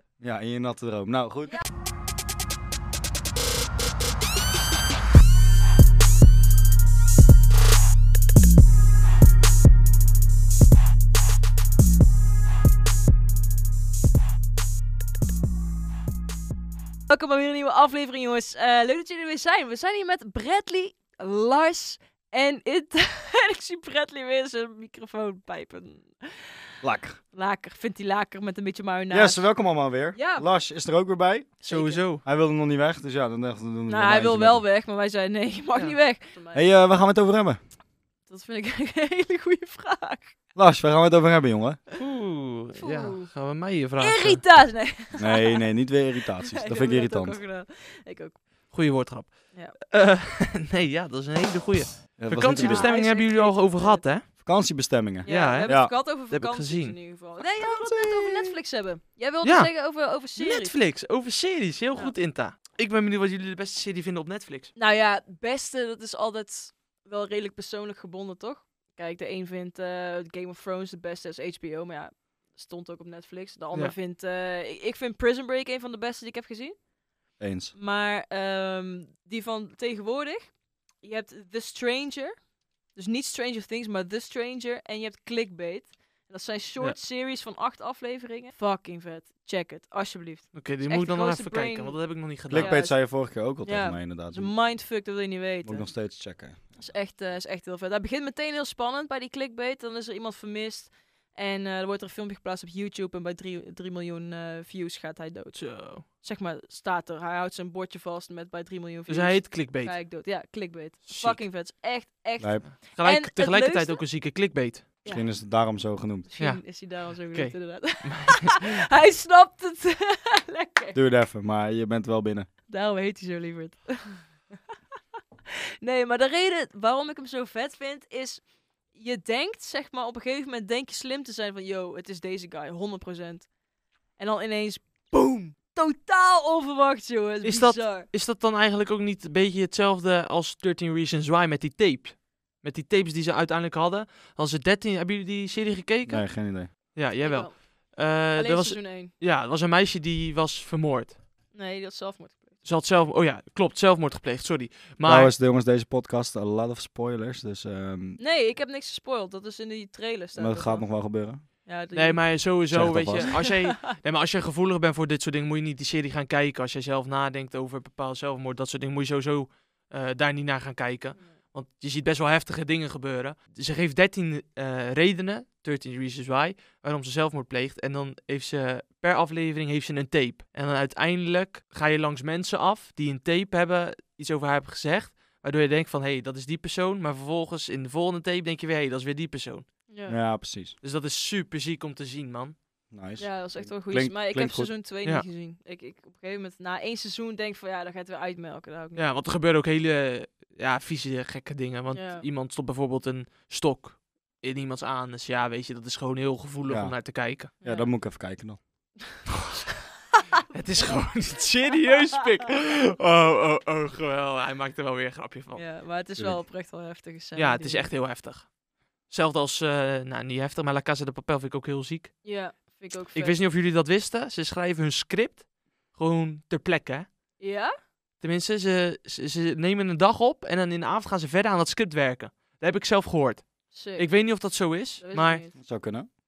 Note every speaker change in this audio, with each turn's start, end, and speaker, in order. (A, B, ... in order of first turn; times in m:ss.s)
0:00.2-0:01.6 A
0:17.1-0:26.7 B
0:26.8-0:27.2 A
0:27.3-0:29.5 B
0:29.1-0:34.6 A
0:30.1-0:30.5 B
0:31.6-0:32.0 B
0:31.7-0:32.2 C
0:33.9-0:36.6 B
0:36.5-0:37.6 A
0:38.2-0:40.3 B
0:40.6-0:41.8 A
0:42.0-0:44.4 C
0:42.8-0:43.3 B
0:44.0-0:45.6 B
0:45.1-0:47.4 A
0:46.4-0:48.4 B
0:48.7-0:54.3 C
0:52.2-0:53.0 A
0:52.5-0:54.1 B
0:54.4-0:55.9 A
0:55.2-1:00.7 B
0:55.2-0:57.0 C
0:57.4-0:58.6 A
0:59.4-1:04.7 C
1:04.8-1:16.8 B
1:17.4-1:17.7 A
1:17.8-1:35.9 B
1:30.5-1:32.8 C
1:32.5-1:34.6 A
1:35.6-1:37.0 A
1:36.7-1:54.0 B
1:45.5-1:46.0 C
1:49.1-1:50.0 C
1:51.1-1:51.4 C
1:52.4-1:52.7 A
1:52.7-1:54.9 C
1:55.1-1:56.3 A
1:56.3-2:01.0 B
1:56.4-1:58.8 C
2:00.9-2:02.5 A
2:02.7-2:04.3 B
2:05.8-2:13.5 B
2:14.2-2:18.1 B
2:17.4-2:31.2 C
2:26.0-2:26.9 A
2:27.2-2:29.1 B
2:31.5-2:32.6 B
2:32.6-2:35.3 C
2:35.0-2:38.2 A
2:38.2-2:43.8 B
2:40.4-2:41.4 A
2:41.9-3:09.6 C
2:42.7-2:43.5 A
3:09.9-3:10.2 B
3:10.1-3:10.8 A
3:10.8-3:12.6 C
3:12.9-3:14.7 A
3:13.2-3:19.1 B
3:18.9-3:27.5 C
3:21.9-3:22.2 B
3:26.7-3:27.0 A
3:27.6-3:27.9 B
3:27.6-3:28.6 A
3:30.5-3:35.7 C
3:35.5-3:37.9 B
3:37.3-3:38.6 C
3:39.1-3:42.3 C
3:42.2-3:43.4 B
3:43.1-3:47.1 C
3:47.4-3:47.7 B
3:48.2-3:55.4 C
3:53.7-3:55.6 B
3:55.6-3:56.1 A